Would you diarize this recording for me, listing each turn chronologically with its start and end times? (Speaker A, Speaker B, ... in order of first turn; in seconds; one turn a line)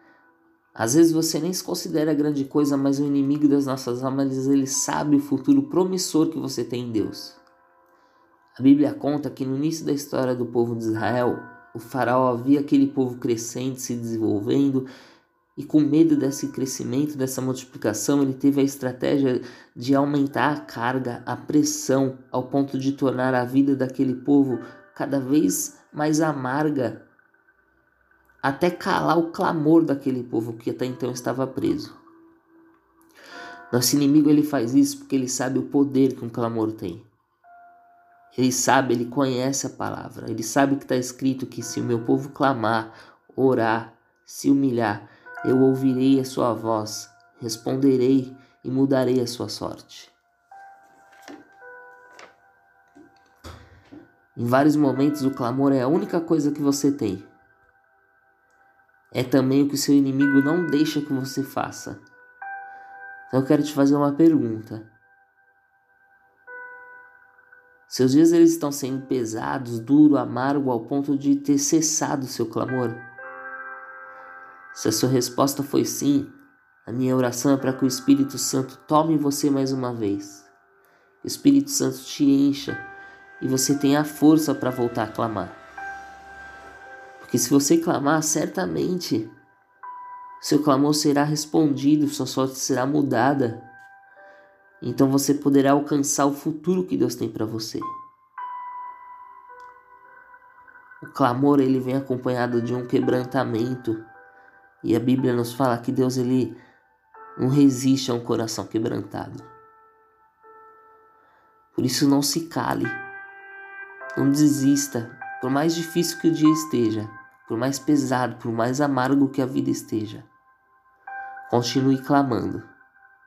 Speaker A: 0.7-7.4
Speaker A: 8.6-14.9
Speaker A: 15.6-27.0
Speaker A: 28.4-32.0
Speaker A: 33.7-37.1
Speaker A: 38.3-50.1
Speaker A: 54.4-57.3
Speaker A: 59.1-62.0
Speaker A: 63.3-64.9
Speaker A: 67.9-73.0
Speaker A: 74.7-80.5
Speaker A: 81.2-82.8
Speaker A: 83.4-85.5
Speaker A: 87.2-89.3
Speaker A: 90.4-93.6
Speaker A: 94.8-97.9
Speaker A: 101.0-104.0
Speaker A: 104.8-106.6
Speaker A: 107.4-109.5
Speaker A: 111.7-113.0
Speaker A: 114.2-120.3
Speaker A: 121.5-122.7